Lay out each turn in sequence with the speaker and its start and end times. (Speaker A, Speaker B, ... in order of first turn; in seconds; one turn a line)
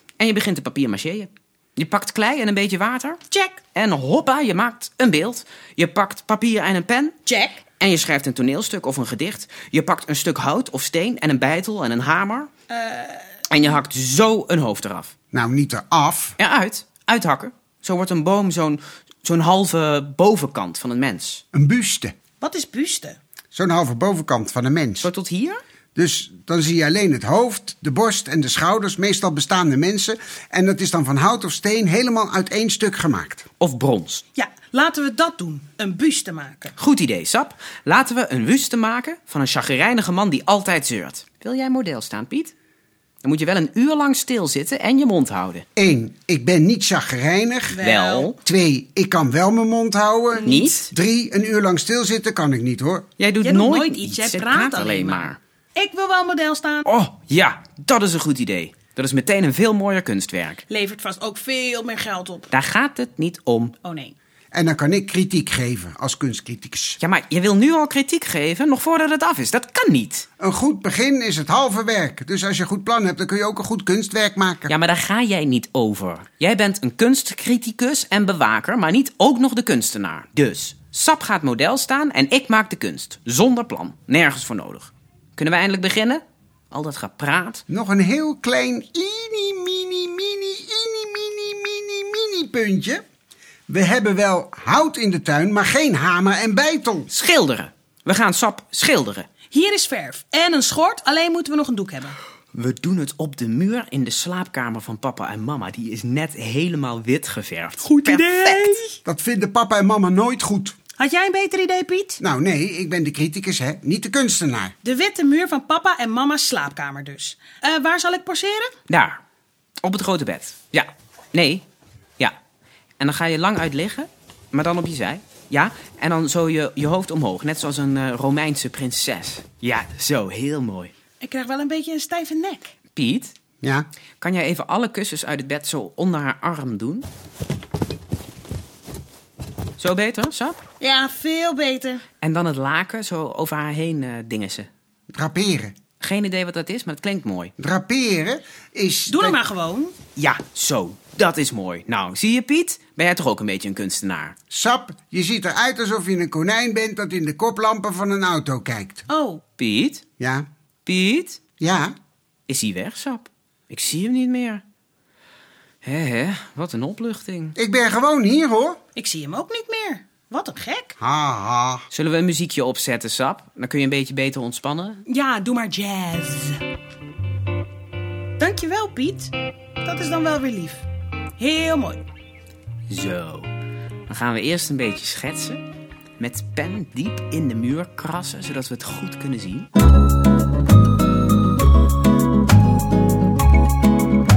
Speaker A: 0.2-3.2
Speaker B: 3.3-3.6
Speaker A: 3.7-7.2
Speaker B: 7.2-7.7
Speaker A: 7.8-12.5
Speaker B: 12.7-13.4
Speaker A: 13.5-15.1
Speaker C: 15.3-16.4
Speaker A: 16.4-21.4
Speaker C: 21.5-22.1
Speaker B: 22.4-23.2
Speaker C: 23.5-25.1
Speaker A: 25.0-25.6
Speaker C: 25.9-33.5
Speaker A: 33.6-34.2
Speaker B: 34.3-36.8
Speaker A: 36.8-42.5
Speaker A: 43.2-45.6
Speaker C: 45.8-47.8
Speaker B: 47.7-48.3
Speaker A: 47.8-48.4
Speaker C: 48.4-53.1
Speaker B: 50.3-50.8
Speaker A: 50.4-50.9
Speaker A: 53.2-55.4
Speaker B: 53.4-56.9
Speaker A: 56.9-60.6
Speaker B: 60.7-62.5
Speaker A: 62.5-63.7
Speaker B: 63.8-64.1
Speaker C: 64.5-67.0
Speaker A: 67.0-70.3
Speaker C: 70.4-74.7
Speaker A: 74.7-87.6
Speaker C: 87.7-93.0
Speaker C: 93.7-97.1
Speaker A: 97.1-99.3
Speaker B: 99.5-102.2
Speaker A: 102.5-108.8
Speaker B: 107.8-109.0
Speaker C: 109.0-110.8
Speaker B: 111.0-112.2
Speaker C: 112.2-114.7
Speaker B: 114.8-118.7
Speaker A: 118.9-119.2
Speaker A: 119.8-121.6
Speaker A: 123.0-130.9
Speaker B: 131.2-132.7
Speaker A: 132.9-133.3
Speaker C: 133.6-133.9
Speaker A: 134.2-137.1
Speaker A: 139.8-140.6
Speaker B: 140.8-142.0
Speaker A: 142.2-144.7
Speaker C: 145.1-145.8
Speaker A: 146.0-147.5
Speaker C: 147.6-149.4
Speaker B: 149.1-150.0
Speaker A: 150.2-154.3
Speaker C: 154.5-159.0
Speaker B: 159.1-159.4
Speaker A: 159.6-160.0
Speaker C: 160.2-160.4
Speaker A: 160.8-161.4
Speaker C: 161.6-161.9
Speaker A: 162.5-164.6
Speaker A: 165.8-167.6
Speaker C: 167.6-168.8
Speaker B: 168.9-170.9
Speaker C: 171.0-171.8
Speaker A: 171.9-175.0
Speaker B: 175.1-176.6
Speaker B: 178.4-180.8
Speaker B: 181.4-182.0
Speaker A: 182.9-183.5
Speaker A: 184.1-185.6
Speaker A: 186.2-189.7